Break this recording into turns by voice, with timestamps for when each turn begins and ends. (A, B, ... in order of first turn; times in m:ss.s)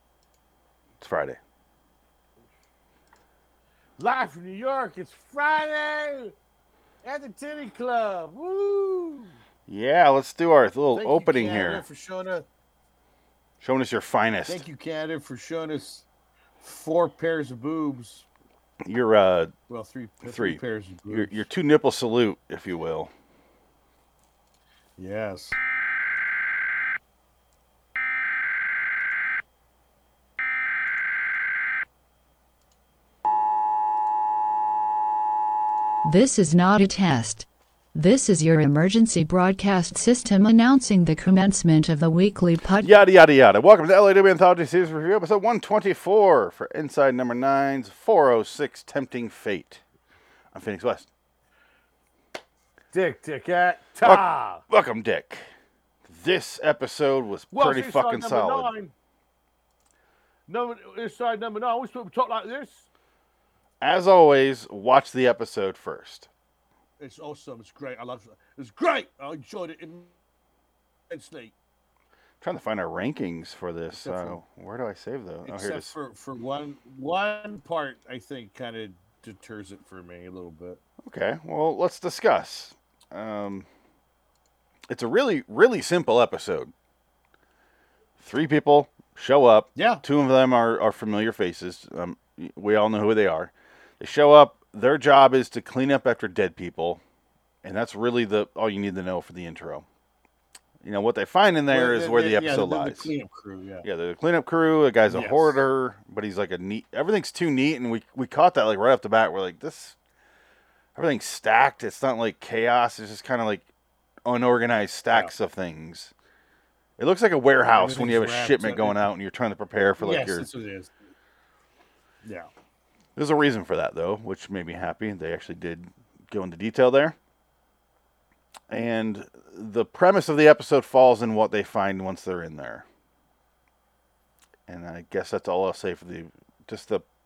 0:01.0-0:01.4 A
0:04.0-0:06.3 B
0:07.0-0:09.4 B
0:09.7-0:11.8 A
0:10.9-0:12.4 B
0:13.6-0:14.6 A
0:14.5-0:16.0 B
0:16.6-0:18.2 B
0:18.8-0:19.5 A
0:19.7-0:21.5 B
0:20.2-0:23.1 A
0:25.0-0:25.6 B
0:36.0-0:42.9 C
0:42.8-0:49.8 A
0:50.5-0:51.1 A
0:52.9-0:54.6 B
0:54.0-0:55.5 A
0:56.0-0:58.7 A
0:57.5-0:58.9 B
1:00.5-1:02.9 B
1:03.8-1:06.3 A
1:07.0-1:10.1 B
1:11.1-1:11.5 B
1:12.4-1:15.9 A
1:13.9-1:14.4 B
1:15.4-1:20.8 B
1:21.0-1:23.7 A
1:24.9-1:26.7 A
1:28.2-1:37.0 A
1:29.7-1:30.0 B
1:37.6-1:39.8 A
1:40.8-1:43.1 A
1:41.7-1:43.9 B
1:43.8-1:50.0 A
1:45.1-1:45.6 B
1:50.9-1:53.6 A
1:54.2-1:56.1 A
1:57.0-2:00.4 A
1:57.7-1:59.0 B
2:00.0-2:01.0 B
2:02.2-2:02.5 B
2:03.2-2:07.2 A
2:08.7-2:12.8 A
2:14.7-2:17.0 A